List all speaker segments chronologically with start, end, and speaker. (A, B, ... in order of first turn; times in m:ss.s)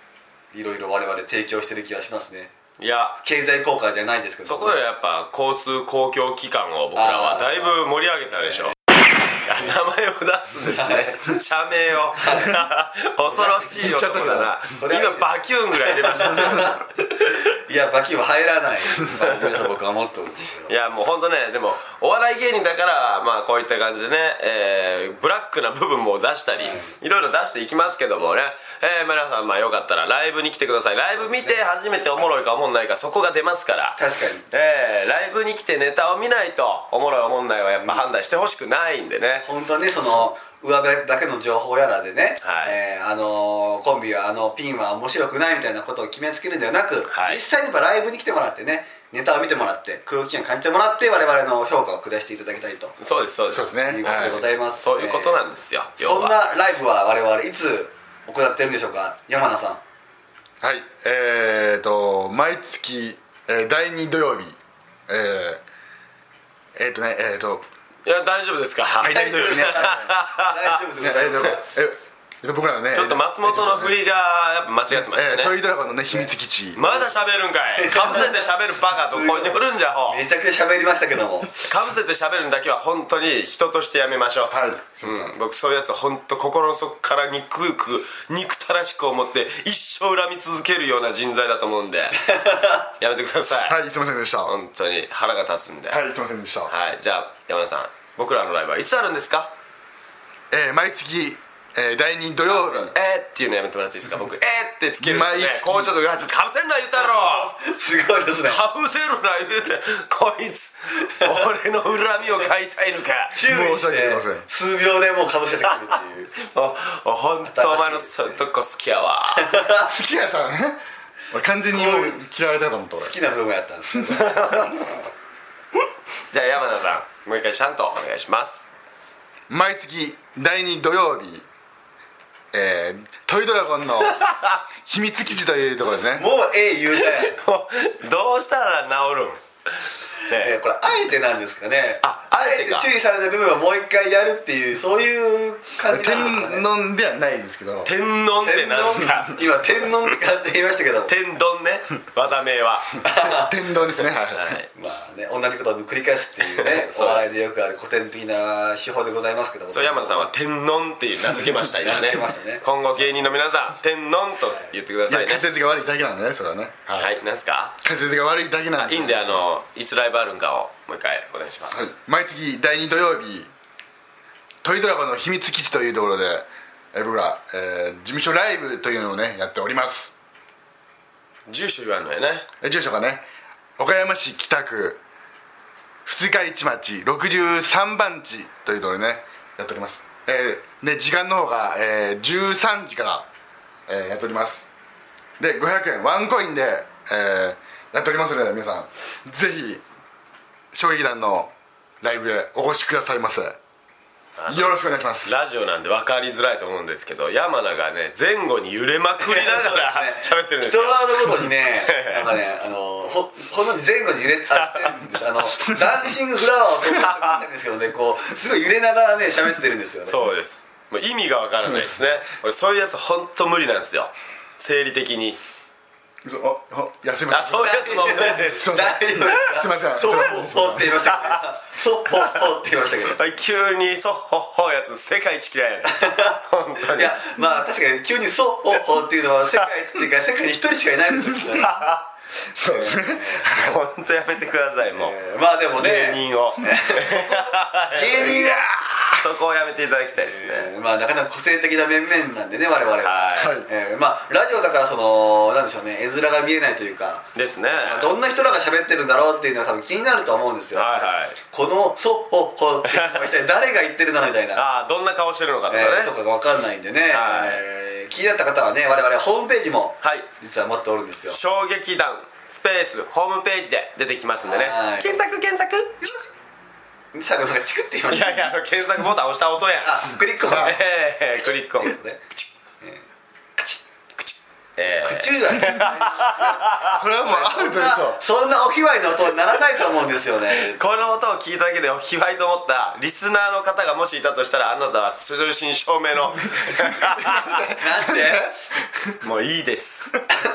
0:00.5-0:02.5 A
0:02.8-0:03.2 B
0:03.2-0:04.8 A
0:04.4-0:08.7 B
0:07.0-0:07.8 A
0:08.4-0:08.7 A
0:09.4-0:16.9 B
0:10.7-0:11.1 A
0:12.2-0:12.6 A
0:13.3-0:13.8 A
0:13.8-0:14.5 C
0:14.7-0:16.8 A
0:17.5-0:20.7 A
0:19.2-0:19.6 B
0:20.7-0:39.5 B
0:26.5-0:26.9 A
0:34.0-0:34.4 A
0:39.4-0:53.0 A
0:42.4-0:42.8 B
0:47.1-0:47.4 B
0:53.0-0:56.4 B
0:53.5-0:54.4 C
0:53.8-0:55.4 A
0:56.0-0:59.8 A
1:00.6-1:04.6 C
1:05.1-1:05.6 C
1:06.7-1:07.6 C
1:08.0-1:10.8 B
1:09.0-1:09.9 C
1:09.0-1:11.6 A
1:11.0-1:14.0 C
1:12.9-1:15.5 B
1:14.9-1:17.0 C
1:16.7-1:20.2 B
1:17.8-1:21.5 A
1:21.6-1:32.3 B
1:24.5-1:25.0 C
1:32.3-1:32.8 A
1:33.0-1:33.8 B
1:33.6-1:34.5 C
1:34.4-1:36.0 B
1:35.9-1:36.7 C
1:36.7-1:39.5 B
1:40.5-1:42.9 C
1:42.5-1:42.9 A
1:42.9-1:47.5 B
1:45.0-1:45.9 C
1:47.0-1:48.6 A
1:48.4-1:53.3 B
1:51.0-1:51.4 A
1:53.3-1:56.3 A
1:53.4-1:54.4 C
1:56.4-1:59.6 B
1:57.4-1:58.4 A
1:59.3-1:59.9 A
1:59.8-2:00.8 C
2:01.3-2:03.1 C
2:01.7-2:02.2 A
2:03.0-2:04.6 A
2:04.1-2:05.1 B
2:06.3-2:08.6 B
2:09.5-2:11.4 C
2:12.5-2:14.2 C
2:14.0-2:14.6 B
2:14.8-2:16.2 C
2:16.1-2:17.4 A
2:17.0-2:19.4 B
2:20.3-2:26.6 A
2:22.0-2:22.9 B
2:25.9-2:27.9 C
2:27.8-2:29.9 B
2:28.4-2:31.1 A
2:31.1-2:33.0 B
2:33.0-2:33.6 A
2:33.2-2:34.5 C
2:34.3-2:34.7 B
2:34.7-2:40.3 A
2:36.6-2:37.3 B
2:39.7-2:45.4 B
2:41.7-2:42.6 A
2:45.1-2:47.1 C
2:47.0-2:47.7 B
2:47.8-2:49.4 C
2:48.8-2:51.9 B
2:51.7-2:53.5 C
2:54.6-3:00.1 C
3:01.5-3:02.4 B
3:02.6-3:03.3 C
3:03.8-3:05.0 C
3:06.0-3:13.2 C
3:13.9-3:14.6 C
3:15.4-3:19.8 C
3:20.7-3:23.6 C
3:24.4-3:32.3 B
3:24.5-3:25.4 C
3:29.2-3:40.2 A
3:34.6-3:35.0 B
3:36.9-3:37.4 B
3:40.1-3:45.4 B
3:46.2-3:51.0 C
3:47.3-3:48.9 B
3:47.5-3:53.2 A
3:51.0-3:51.4 B
3:53.1-3:57.1 B
3:55.8-4:01.7 A
4:01.6-4:02.0 B
4:02.5-4:03.8 C
4:02.6-4:03.5 A
4:03.5-4:05.1 B
4:04.9-4:08.7 A
4:05.8-4:10.7 B
4:08.4-4:09.0 C
4:10.2-4:24.6 A
4:13.0-4:13.6 B
4:13.4-4:13.7 C
4:17.3-4:18.1 B
4:20.7-4:21.4 B
4:22.9-4:23.3 B
4:24.6-4:26.1 B
4:25.7-4:31.4 A
4:27.1-4:27.6 B
4:30.0-4:30.3 B
4:31.3-4:36.2 B
4:34.4-4:35.2 A
4:37.1-4:38.4 A
4:38.1-4:42.4 B
4:39.8-4:40.9 A
4:40.5-4:40.8 C
4:41.7-4:42.2 A
4:43.6-4:43.8 A
4:44.2-4:47.0 B
4:44.9-4:46.7 A
4:46.9-4:48.2 C
4:47.2-4:50.8 A
4:50.6-4:57.6 B
4:57.1-4:59.2 C
4:57.6-4:58.5 A
4:59.2-5:00.1 B